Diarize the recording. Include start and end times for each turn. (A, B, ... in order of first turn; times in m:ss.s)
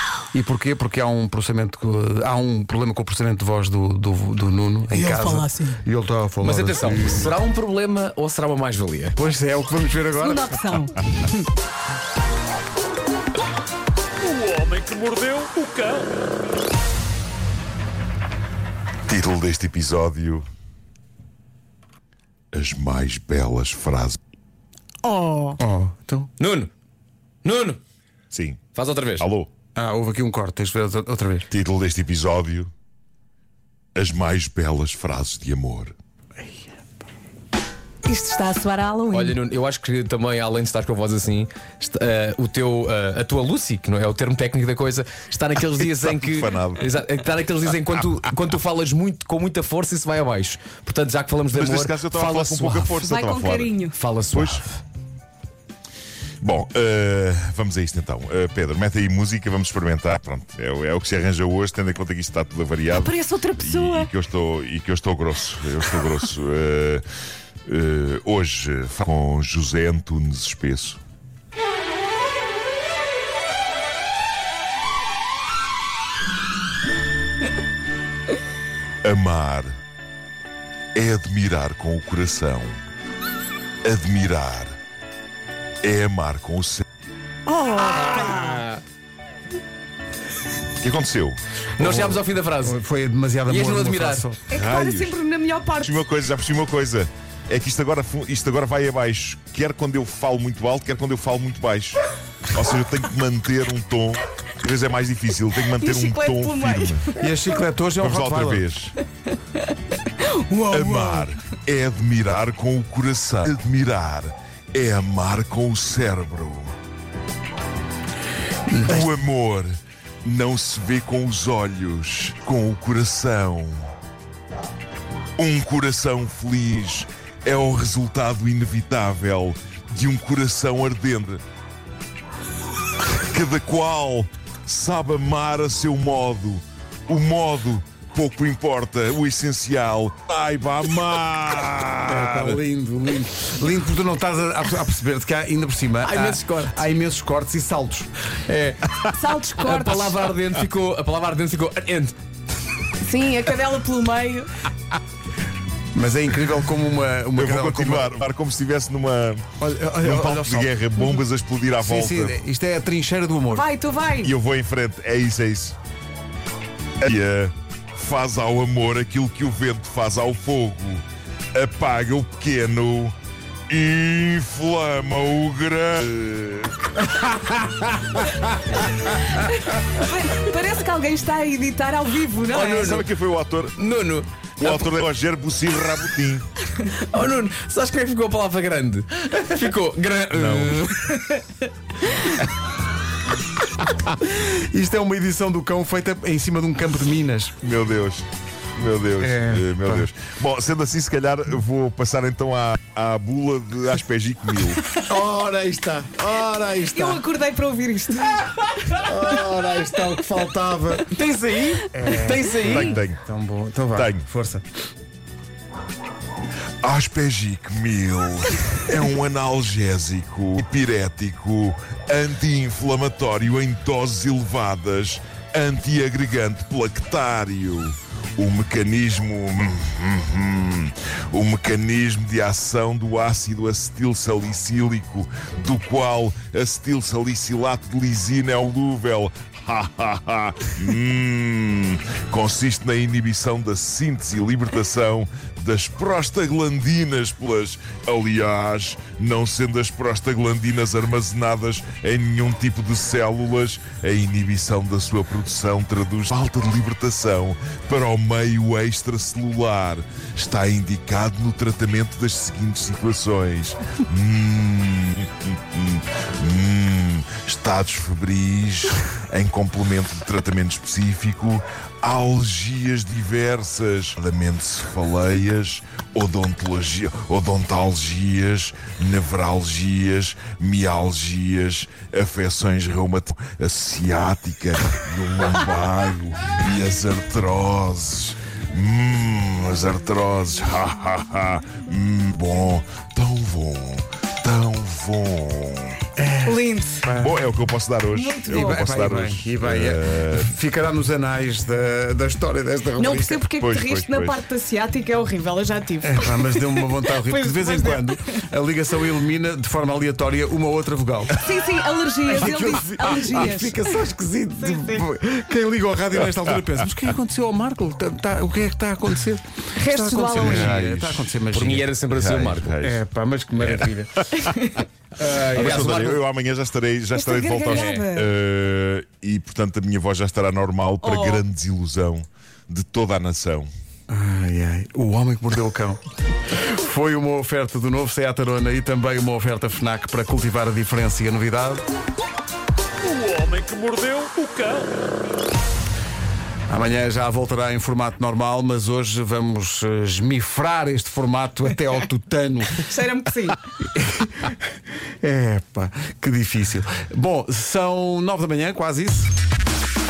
0:00.3-0:07.3 A
0:04.9-0:05.8 B
0:06.4-0:09.1 C
0:09.2-0:10.8 A
0:10.2-0:11.4 B
0:14.2-0:16.1 D
0:19.1-0:20.5 E
0:22.5-0:24.2 E
0:25.0-0:25.4 B
0:25.6-0:26.3 A
0:26.4-0:26.7 C
0:27.4-0:27.8 C
0:28.3-0:28.6 E
0:28.7-0:29.3 C
0:29.2-0:29.5 E
0:29.8-0:31.5 A
0:31.5-0:32.7 E
0:33.9-0:35.9 E
0:38.0-0:39.4 B
0:39.1-0:53.3 C
0:45.8-0:46.9 E
0:51.5-0:53.7 E
0:53.0-0:54.0 B
0:53.8-0:54.7 C
0:54.3-0:54.6 E
0:56.4-1:07.0 E
1:02.9-1:04.1 B
1:07.7-1:11.0 E
1:19.0-1:19.7 E
1:20.9-1:22.8 E
1:23.8-1:24.8 E
1:25.8-1:26.8 E
1:27.5-1:28.5 B
1:27.6-1:28.8 C
1:30.8-1:32.2 E
1:31.8-1:32.8 C
1:32.6-1:34.4 A
1:33.4-1:34.2 C
1:34.5-1:36.0 B
1:34.5-1:35.2 E
1:35.8-1:47.0 E
1:45.7-1:47.4 B
1:47.2-1:48.6 A
1:48.0-1:49.0 E
1:50.0-1:51.3 B
1:50.7-1:56.7 E
1:58.7-1:59.0 A
1:58.8-2:03.9 E
2:05.4-2:11.4 E
2:13.2-2:22.6 E
2:22.0-2:28.1 A
2:26.0-2:26.8 C
2:28.5-2:32.1 C
2:29.1-2:30.3 B
2:33.0-2:34.6 B
2:35.9-2:38.1 A
2:37.3-2:39.5 E
2:39.6-2:41.2 A
2:40.0-2:42.4 E
2:41.8-2:43.7 A
2:43.5-2:44.3 B
2:44.2-2:45.8 E
2:47.0-2:53.1 E
2:53.7-2:56.8 E
2:57.2-2:59.2 C
2:59.4-3:03.0 B
3:02.5-3:03.1 C
3:02.6-3:03.8 E
3:03.8-3:05.0 C
3:04.6-3:06.4 E
3:07.1-3:11.2 C
3:10.3-3:10.8 E
3:14.2-3:17.6 A
3:17.6-3:24.8 E
3:19.2-3:20.1 A
3:25.0-3:27.2 A
3:26.8-3:29.1 B
3:28.9-3:31.1 A
3:31.1-3:32.9 C
3:31.9-3:34.6 A
3:32.0-3:32.3 B
3:32.6-3:33.2 E
3:33.9-3:34.2 E
3:36.8-4:56.0 E
4:56.2-4:57.3 A
4:56.4-4:57.1 B
4:57.1-5:00.5 E
4:58.1-4:58.8 B
4:58.5-5:03.4 A
5:03.0-5:06.5 B
5:03.6-5:04.4 E
5:06.0-5:11.4 A
5:07.1-5:08.2 B
5:11.4-5:14.0 B
5:12.3-5:21.9 A
5:14.6-5:15.0 B
5:19.8-5:20.7 B
5:20.3-5:21.3 E
5:21.5-5:22.8 C
5:22.1-5:23.0 E
5:22.8-5:24.3 A
5:23.6-5:24.5 E
5:24.5-5:24.8 B
5:25.2-5:26.0 A
5:25.4-5:26.2 C
5:25.5-5:33.7 E
5:27.1-5:28.3 B
5:27.7-5:28.0 C
5:31.0-5:31.4 B
5:34.1-5:41.8 A
5:43.0-5:44.9 D
5:46.7-5:52.8 A
5:52.7-5:53.6 B
5:53.9-5:54.5 A
5:55.2-5:59.3 A